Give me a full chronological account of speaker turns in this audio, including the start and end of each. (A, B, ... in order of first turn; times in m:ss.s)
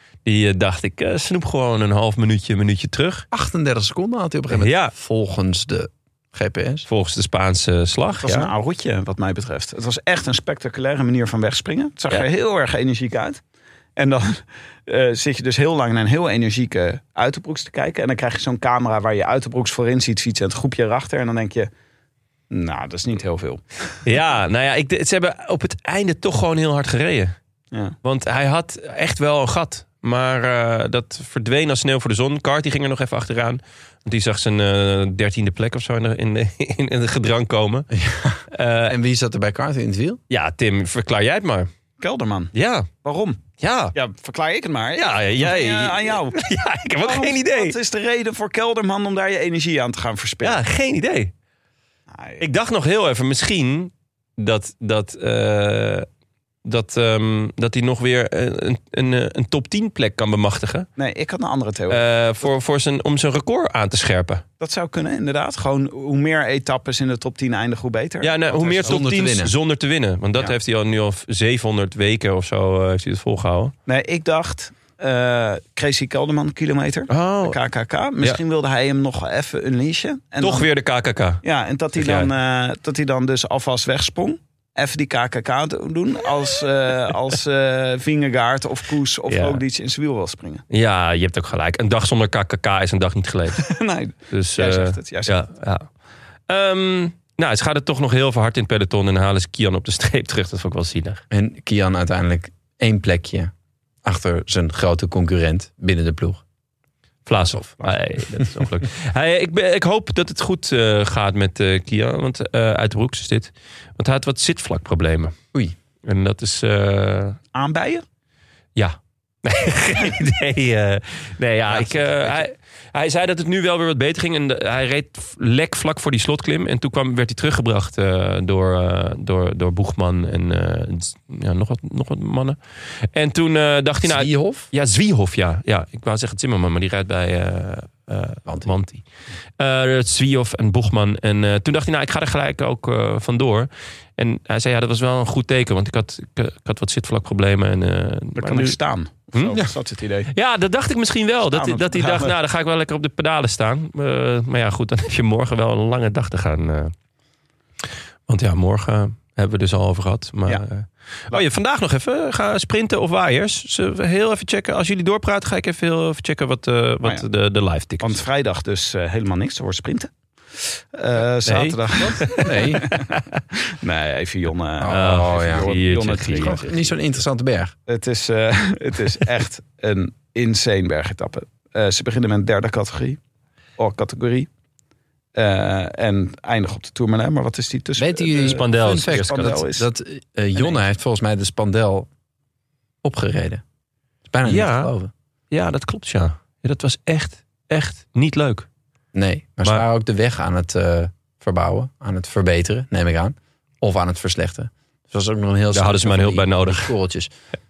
0:00.2-0:03.2 A
0:03.3-0:06.9 B
0:04.5-0:04.9 A
0:06.9-0:08.5 A
0:08.2-0:13.4 C
0:14.0-0:21.7 C
0:22.5-0:23.6 C
0:24.0-0:27.3 A
0:28.0-0:37.9 A
0:37.9-0:40.2 B
0:38.5-0:38.9 A
0:40.3-0:41.7 A
0:42.0-0:42.5 C
0:42.5-0:42.9 A
0:43.0-0:43.4 C
0:43.6-0:43.9 A
0:43.9-0:46.4 C
0:45.0-0:47.7 A
0:47.0-0:50.6 C
0:50.4-0:51.3 A
0:52.1-0:52.4 C
0:52.4-0:56.1 A
0:56.6-1:00.9 A
1:01.0-1:02.5 C
1:01.9-1:04.4 A
1:04.6-1:09.0 C
1:08.2-1:13.7 A
1:08.8-1:09.5 B
1:13.9-1:20.7 C
1:17.1-1:17.6 A
1:20.4-1:21.4 A
1:21.4-1:30.6 C
1:21.9-1:22.3 A
1:29.3-1:29.6 A
1:30.7-1:33.7 A
1:33.6-1:35.4 C
1:34.3-1:35.9 A
1:36.5-1:41.2 A
1:41.3-1:43.5 B
1:44.0-1:46.4 B
1:47.2-1:55.3 A
1:47.4-1:47.9 B
1:56.0-1:57.4 A
1:57.5-1:58.0 C
1:58.8-2:19.0 A
2:01.7-2:02.4 B
2:14.0-2:14.7 B
2:18.5-2:18.7 B
2:19.6-2:28.8 A
2:28.4-2:30.3 C
2:30.3-2:36.9 A
2:31.5-2:32.3 C
2:38.3-2:48.2 A
2:48.0-2:56.8 C
2:51.4-2:53.4 A
2:52.3-2:52.9 B
2:54.8-2:57.7 B
2:54.8-2:56.8 A
2:57.9-3:03.2 C
3:03.8-3:04.5 C
3:05.3-3:09.9 C
3:08.0-3:12.1 B
3:08.3-3:09.6 A
3:13.0-3:13.6 B
3:14.2-3:15.1 B
3:14.4-3:14.9 A
3:15.5-3:18.7 A
3:19.1-3:27.3 B
3:25.7-3:26.9 A